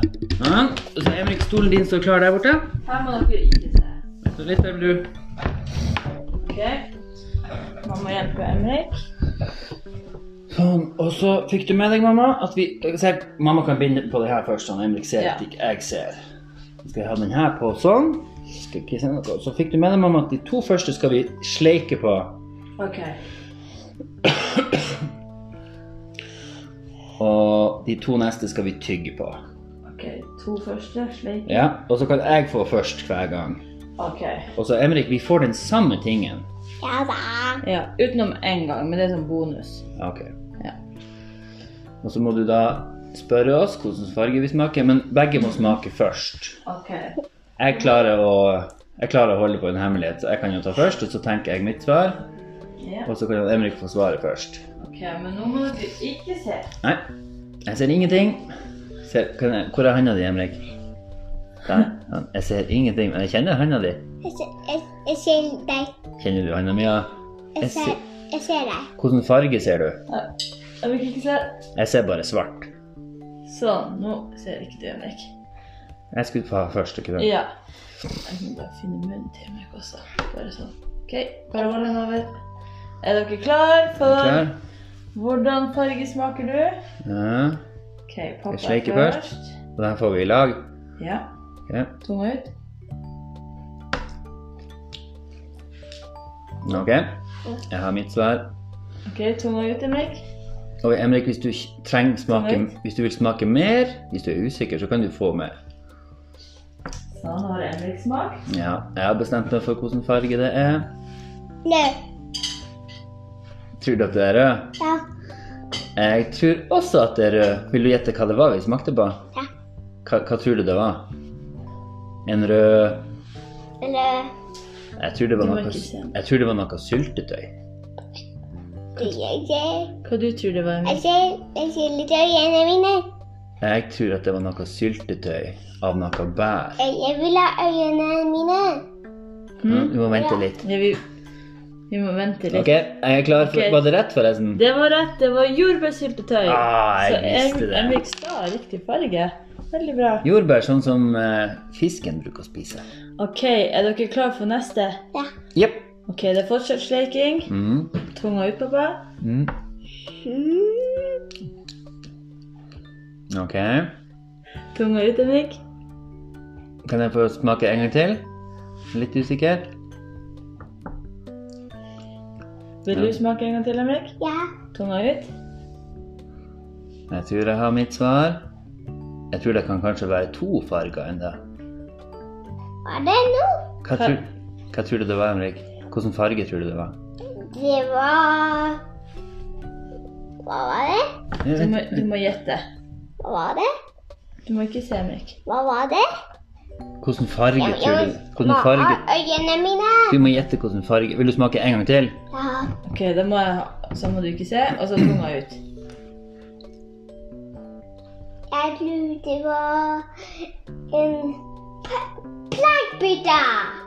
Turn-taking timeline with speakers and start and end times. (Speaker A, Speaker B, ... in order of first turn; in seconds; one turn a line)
Speaker A: 0.4-2.7
Speaker B: 2.8-4.0
Speaker A: 4.2-5.1
Speaker B: 6.4-6.9
Speaker B: 7.8-9.0
Speaker A: 10.5-16.2
Speaker B: 15.2-15.4
Speaker A: 16.8-22.4
Speaker B: 22.8-23.2
Speaker A: 24.2-25.0
Speaker A: 27.2-29.4
Speaker B: 29.9-31.7
Speaker A: 31.4-33.6
Speaker B: 34.0-34.5
Speaker A: 34.5-36.5
Speaker C: 36.8-37.6
Speaker B: 37.6-39.9
Speaker A: 40.0-40.3
Speaker A: 42.0-46.6
Speaker B: 46.6-47.1
Speaker A: 47.6-52.2
Speaker B: 52.8-53.1
Speaker A: 53.0-54.6
Speaker B: 54.8-56.7
Speaker A: 56.8-57.1
Speaker A: 57.6-58.5
Speaker A: 59.0-60.6
Speaker A: 61.6-64.0
Speaker C: 64.2-65.9
Speaker A: 66.2-68.0
Speaker C: 67.6-68.9
Speaker A: 69.0-70.0
Speaker B: 70.8-71.6
Speaker A: 71.7-72.7
Speaker B: 73.5-75.3
Speaker A: 76.1-77.3
Speaker B: 77.2-77.5
Speaker B: 78.2-82.3
Speaker B: 83.0-84.5
Speaker A: 84.0-84.6
Speaker B: 85.1-86.8
Speaker A: 87.0-87.6
Speaker B: 88.1-89.5
Speaker A: 88.5-89.2
Speaker A: 89.8-90.7
Speaker B: 91.0-91.3
Speaker A: 91.7-91.9
Speaker B: 92.0-92.5
Speaker A: 96.6-98.5
Speaker B: 99.1-100.2
Speaker A: 100.8-105.5
Speaker B: 102.3-102.7
Speaker B: 107.1-108.4
Speaker A: 108.5-110.9
Speaker C: 111.6-112.0
Speaker A: 113.8-114.7
Speaker C: 114.8-115.0
Speaker A: 116.0-119.2
Speaker A: 120.0-121.1
Speaker A: 122.2-123.1
Speaker C: 123.8-124.3
Speaker A: 125.0-127.5
Speaker B: 125.4-126.1
Speaker C: 128.9-129.9
Speaker B: 130.0-131.0
Speaker C: 130.8-133.1
Speaker A: 133.6-136.8
Speaker C: 136.8-138.8
Speaker B: 139.6-139.9
Speaker A: 139.6-140.7
Speaker C: 140.1-140.4
Speaker B: 140.6-141.0
Speaker B: 141.9-142.8
Speaker A: 142.5-144.6
Speaker B: 143.4-143.8
Speaker B: 144.5-150.3
Speaker A: 146.4-148.0
Speaker A: 150.2-152.8
Speaker B: 153.2-155.0
Speaker A: 155.5-155.9
Speaker B: 156.1-157.5
Speaker A: 157.5-157.9
Speaker B: 158.1-159.0
Speaker A: 159.2-159.5
Speaker C: 160.2-161.2
Speaker A: 163.3-163.9
Speaker B: 164.7-165.6
Speaker A: 166.8-168.3
Speaker A: 168.9-169.7
Speaker B: 172.8-174.2
Speaker A: 172.9-173.2
Speaker C: 174.2-174.5
Speaker B: 174.7-175.3
Speaker A: 177.1-178.4
Speaker A: 179.3-181.4
Speaker C: 182.8-183.7
Speaker A: 183.8-187.0
Speaker C: 187.3-188.8
Speaker C: 190.4-191.1
Speaker A: 191.4-192.1
Speaker B: 191.5-192.7
Speaker C: 193.2-193.7
Speaker B: 194.4-195.4
Speaker C: 195.4-196.1
Speaker A: 197.0-199.0
Speaker C: 197.6-200.2
Speaker A: 200.1-202.2
Speaker C: 202.3-202.7
Speaker B: 202.8-205.6
Speaker C: 208.5-210.1
Speaker C: 210.9-213.8